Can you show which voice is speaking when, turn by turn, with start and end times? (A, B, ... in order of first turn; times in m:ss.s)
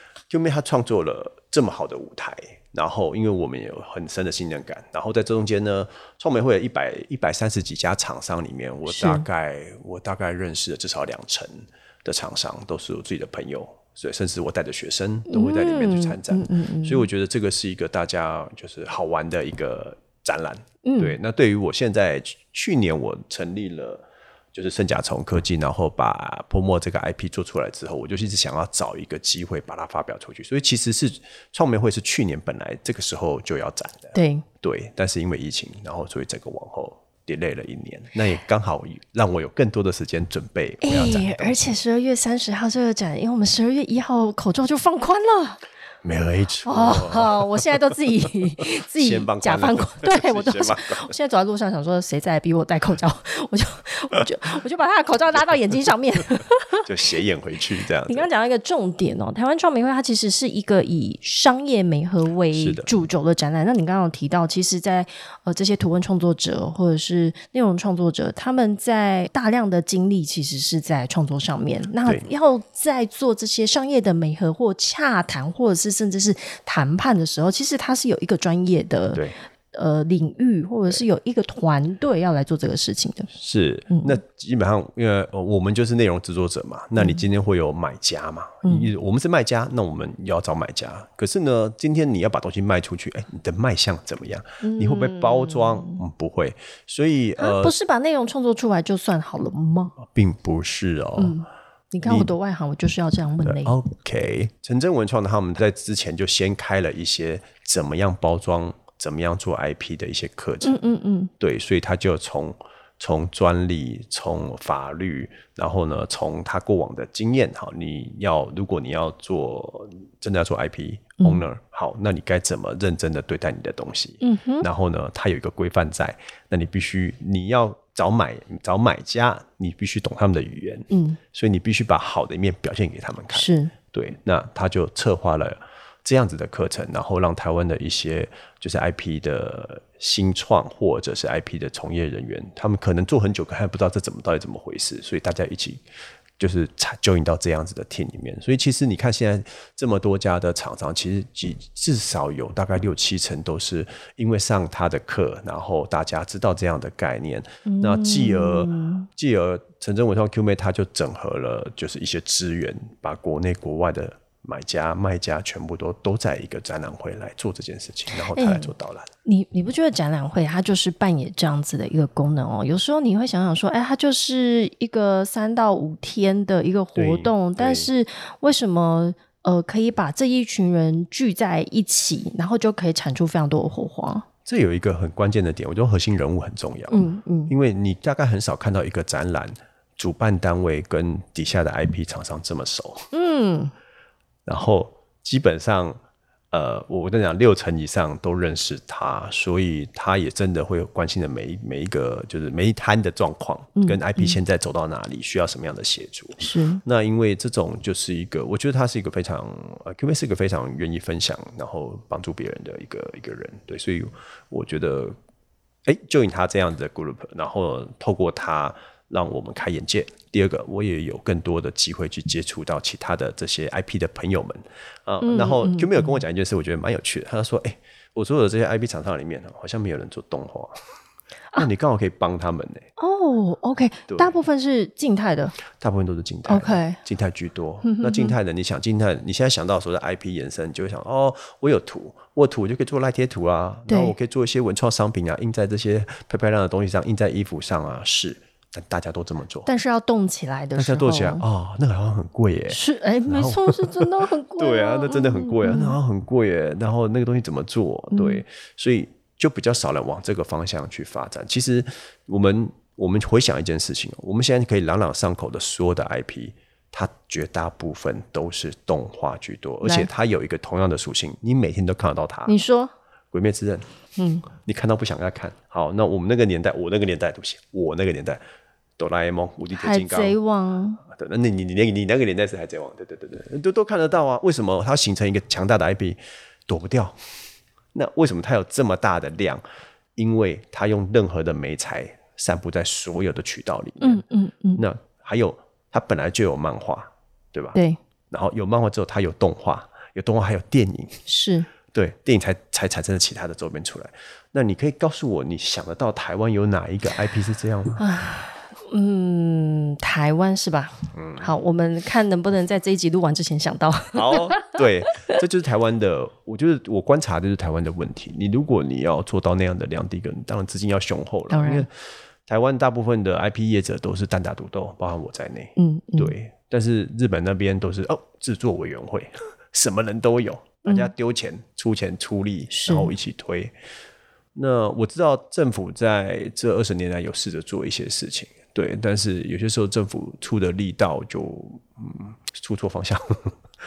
0:00.3-0:41.6 A
0:08.9-0:09.2 B
0:15.3-0:17.1 B
0:20.8-0:21.2 B
0:34.1-0:34.4 B
0:40.8-0:45.6 B
0:46.0-0:47.9 A
0:46.6-0:56.8 B
0:48.9-0:51.1 A
0:56.8-0:58.3 A
0:58.0-1:19.2 B
1:02.5-1:02.9 A
1:19.7-1:23.3 B
1:23.3-1:37.7 A
1:23.9-1:24.2 B
1:27.0-1:27.2 B
1:28.6-1:28.9 B
1:34.6-1:36.0 B
1:37.4-1:39.9 B
1:40.0-1:41.4 A
1:41.2-1:43.7 B
1:42.0-1:42.3 A
1:43.4-1:50.8 A
1:50.6-1:51.3 B
1:51.4-2:25.8 A
2:04.2-2:04.6 B
2:10.9-2:11.2 B
2:13.3-2:13.7 B
2:26.4-2:49.1 A
2:37.6-2:39.1 B
2:48.3-2:48.7 B
2:49.2-3:04.2 B
2:56.9-2:57.9 A
3:04.4-3:13.1 A
3:06.9-3:07.5 B
3:13.1-3:13.7 B
3:14.4-3:16.0 A
3:16.5-3:35.2 A
3:23.8-3:24.4 B
3:26.4-3:26.8 B
3:35.8-3:50.8 A
3:45.2-3:46.2 B
3:51.6-3:52.9 A
3:53.0-3:55.5 B
3:54.1-3:54.4 A
3:55.7-4:09.7 A
3:56.5-3:57.0 B
3:57.8-3:58.3 B
4:03.9-4:04.1 B
4:09.6-4:11.4 B
4:10.8-4:32.6 A
4:12.7-4:16.0 B
4:18.1-4:18.4 B
4:29.8-4:30.1 B
4:32.5-4:32.9 B
4:33.3-4:33.8 A
4:34.2-4:34.5 B
4:34.5-4:38.4 A
4:39.0-4:40.4 A
4:39.7-4:41.0 B
4:41.0-4:47.2 A
4:47.9-4:49.6 A
4:50.2-4:54.2 A
4:54.0-4:54.8 B
4:54.8-4:57.8 A
4:58.3-5:01.2 A
5:01.3-5:01.7 B
5:01.9-5:08.0 A
5:08.0-5:15.4 B
5:11.1-5:11.5 A
5:14.1-5:21.9 A
5:21.5-5:21.9 B
5:22.5-5:33.7 A
5:25.8-5:26.3 B
5:30.8-5:31.1 B
5:32.7-5:33.1 B
5:34.5-5:43.5 A